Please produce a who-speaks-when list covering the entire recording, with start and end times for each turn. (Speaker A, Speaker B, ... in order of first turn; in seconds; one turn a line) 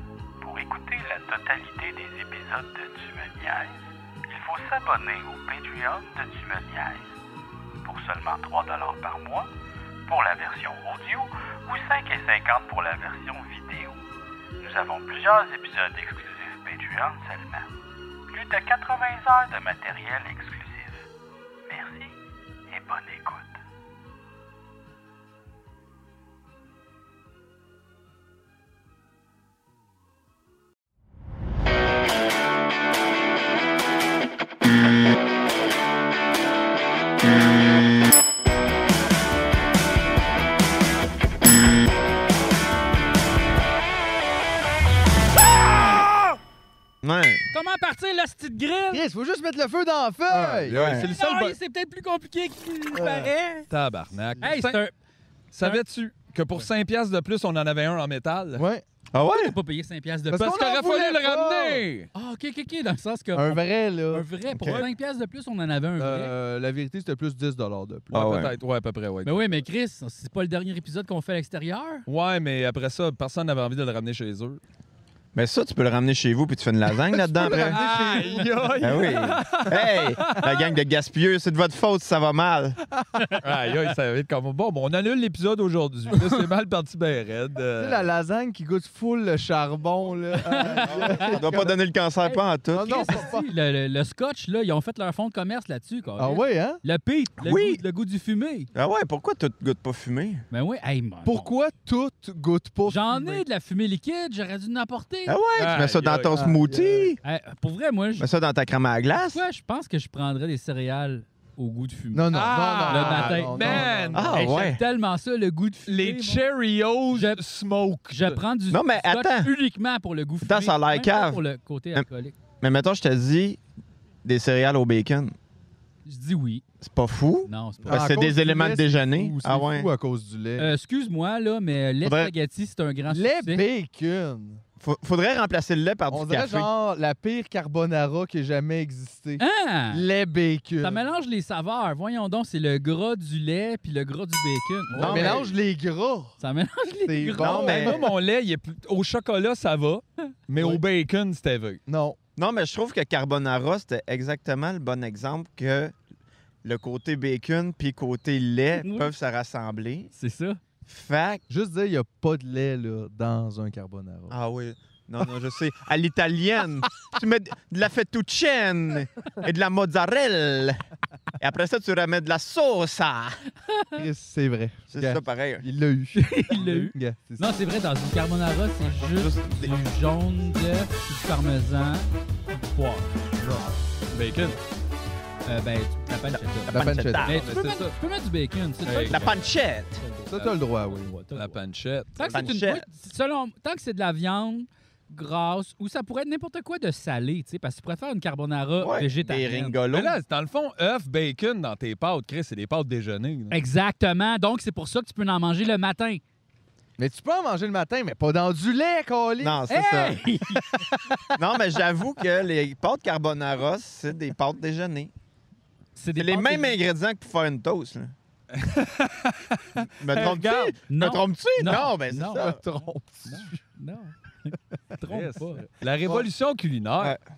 Speaker A: 0.4-3.8
Speaker A: 4.3-7.1
Speaker A: 7.8-9.5
Speaker A: 10.1-14.0
Speaker A: 14.6-17.7
Speaker A: 18.3-21.0
Speaker A: 21.7-22.1
Speaker A: 22.7-23.5
Speaker B: 47.0-47.4
Speaker C: 47.5-49.0
Speaker D: 48.9-50.8
Speaker B: 50.6-51.1
Speaker E: 50.6-51.6
Speaker C: 51.0-53.7
Speaker B: 53.0-53.3
Speaker E: 53.7-54.8
Speaker C: 54.4-54.9
Speaker E: 55.5-58.6
Speaker D: 58.5-58.8
Speaker B: 59.1-59.5
Speaker C: 59.2-60.5
Speaker D: 60.3-61.9
Speaker E: 60.4-62.1
Speaker C: 62.1-66.3
Speaker D: 63.4-64.2
Speaker B: 64.5-64.9
Speaker D: 66.0-68.2
Speaker E: 68.1-69.6
Speaker B: 68.1-68.5
Speaker C: 69.2-72.0
Speaker E: 72.1-74.6
Speaker B: 75.3-77.8
Speaker D: 77.1-79.2
Speaker E: 77.4-80.6
Speaker B: 78.8-82.8
Speaker E: 83.4-88.1
Speaker D: 87.8-91.8
Speaker C: 90.4-91.3
Speaker B: 90.7-93.1
Speaker C: 92.2-98.7
Speaker D: 92.7-93.5
Speaker D: 96.2-96.8
Speaker B: 97.4-97.8
Speaker B: 98.8-100.4
Speaker C: 100.5-101.5
Speaker D: 101.2-103.4
Speaker C: 102.9-105.4
Speaker B: 105.3-107.2
Speaker E: 105.6-106.3
Speaker D: 106.3-107.2
Speaker C: 107.2-108.3
Speaker B: 108.2-109.4
Speaker C: 109.3-112.4
Speaker D: 112.1-114.4
Speaker E: 112.3-114.4
Speaker C: 112.9-116.4
Speaker B: 114.1-114.8
Speaker E: 115.9-118.4
Speaker C: 117.1-117.4
Speaker C: 118.1-122.4
Speaker B: 118.7-119.5
Speaker B: 120.4-121.4
Speaker B: 122.6-123.6
Speaker B: 124.2-125.3
Speaker C: 126.0-126.6
Speaker B: 126.8-129.9
Speaker C: 127.5-128.2
Speaker D: 127.9-130.7
Speaker C: 130.6-133.6
Speaker B: 132.0-132.3
Speaker D: 133.1-134.6
Speaker B: 134.8-136.7
Speaker D: 136.1-141.0
Speaker C: 139.4-140.1
Speaker C: 140.8-145.4
Speaker D: 144.9-146.4
Speaker B: 144.9-145.5
Speaker C: 146.4-147.8
Speaker D: 147.0-148.1
Speaker B: 147.4-148.1
Speaker E: 147.7-151.8
Speaker D: 151.9-152.2
Speaker B: 152.4-155.9
Speaker B: 156.6-160.1
Speaker C: 158.8-159.1
Speaker C: 160.2-160.6
Speaker B: 160.9-161.4
Speaker D: 161.5-164.4
Speaker B: 164.3-170.8
Speaker B: 171.4-173.4
Speaker C: 173.7-174.0
Speaker D: 174.0-177.6
Speaker B: 174.9-175.7
Speaker C: 176.2-183.1
Speaker B: 179.0-179.7
Speaker E: 184.1-184.6
Speaker C: 185.5-191.6
Speaker B: 186.3-187.4
Speaker D: 186.7-187.3
Speaker E: 187.3-187.9
Speaker E: 188.8-189.3
Speaker B: 189.1-190.0
Speaker D: 190.3-191.2
Speaker E: 191.3-192.5
Speaker C: 192.2-199.8
Speaker B: 192.3-192.8
Speaker B: 198.8-200.2
Speaker E: 199.9-203.6
Speaker C: 203.5-206.2
Speaker D: 207.0-209.6
Speaker B: 209.4-210.2
Speaker C: 209.7-210.9
Speaker D: 210.8-211.2
Speaker B: 211.4-215.1
Speaker C: 216.0-216.8
Speaker B: 216.2-218.1
Speaker E: 218.5-220.7
Speaker B: 219.8-222.6
Speaker C: 220.9-225.7
Speaker D: 222.4-223.6
Speaker E: 225.1-227.2